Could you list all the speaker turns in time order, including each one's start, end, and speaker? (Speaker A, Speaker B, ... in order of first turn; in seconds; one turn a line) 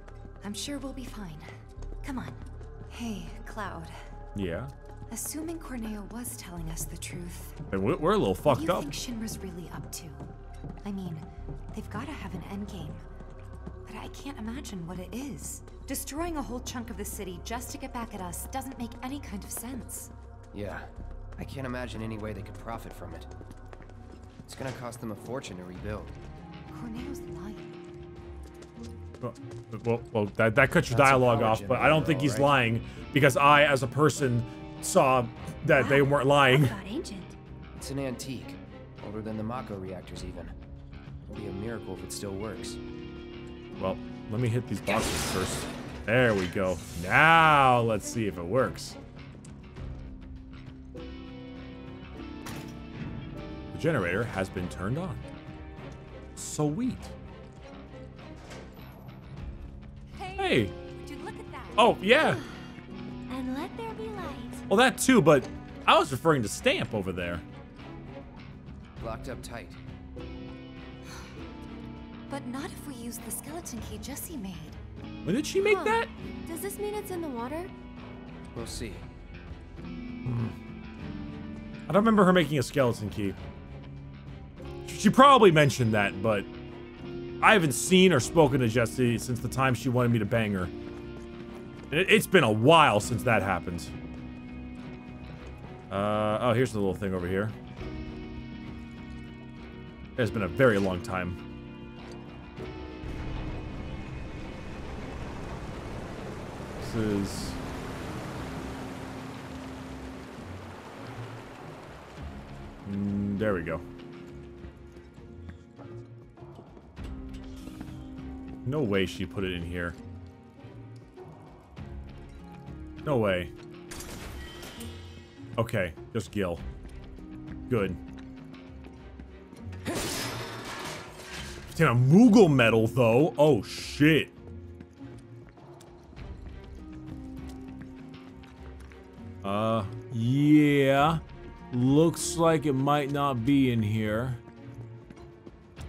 Speaker A: 0.4-1.5
Speaker A: 2.0-2.4
Speaker A: 2.9-3.9
Speaker B: 4.3-4.7
Speaker A: 5.1-7.6
Speaker B: 7.7-8.9
Speaker A: 8.5-10.3
Speaker A: 10.8-13.0
Speaker A: 13.9-20.1
Speaker C: 20.5-23.3
Speaker C: 24.5-26.1
Speaker A: 26.7-27.7
Speaker B: 29.2-36.7
Speaker C: 30.9-32.6
Speaker D: 35.7-37.4
Speaker C: 37.8-40.5
Speaker C: 41.3-42.8
Speaker B: 43.8-49.0
Speaker B: 53.7-55.2
Speaker B: 56.4-57.1
Speaker A: 60.2-62.0
Speaker B: 60.4-60.7
Speaker B: 61.8-62.4
Speaker D: 62.1-62.6
Speaker D: 63.3-64.7
Speaker B: 64.7-67.4
Speaker C: 69.0-69.8
Speaker A: 72.3-74.8
Speaker B: 75.2-76.1
Speaker D: 75.6-77.7
Speaker C: 78.5-79.0
Speaker B: 80.2-80.5
Speaker B: 81.9-83.4
Speaker B: 84.9-86.5
Speaker B: 87.4-90.7
Speaker B: 91.9-93.9
Speaker B: 95.9-97.5
Speaker B: 100.2-101.4
Speaker B: 106.8-107.6
Speaker B: 112.9-113.8
Speaker B: 118.7-120.0
Speaker B: 123.0-123.5
Speaker B: 125.6-126.6
Speaker B: 127.7-128.0
Speaker B: 131.8-134.3
Speaker B: 139.4-144.4